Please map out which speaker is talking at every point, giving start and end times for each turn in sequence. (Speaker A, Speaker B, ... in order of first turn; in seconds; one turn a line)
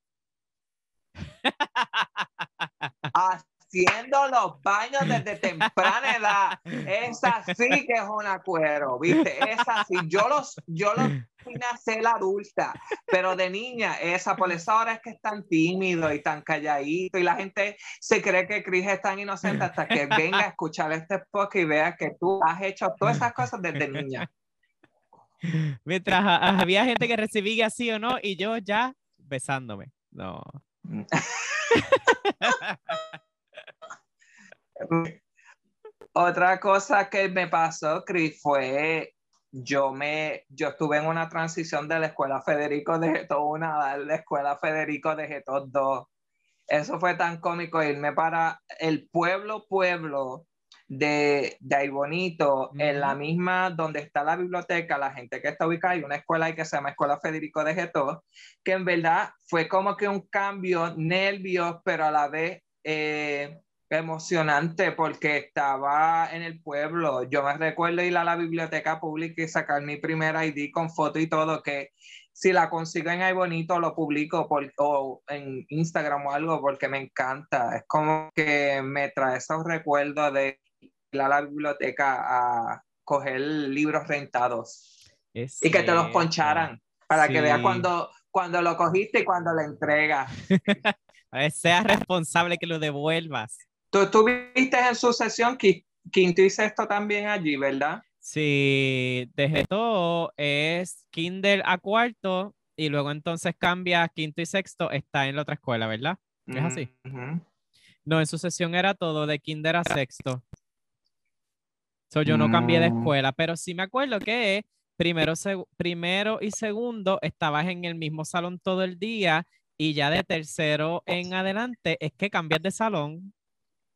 Speaker A: 1.3-2.9
Speaker B: 3.1-24.3
Speaker A: 5.8-6.1
Speaker A: 19.5-20.2
Speaker A: 25.4-30.6
Speaker B: 30.9-31.9
Speaker A: 31.8-33.2
Speaker B: 34.8-35.2
Speaker B: 36.2-46.1
Speaker B: 46.7-84.8
Speaker A: 52.7-53.2
Speaker A: 85.3-87.9
Speaker B: 85.6-90.4
Speaker A: 90.5-93.6
Speaker B: 93.9-98.0
Speaker A: 98.2-106.9
Speaker B: 106.5-107.4
Speaker A: 108.1-110.4
Speaker A: 112.1-123.3
Speaker B: 112.3-113.1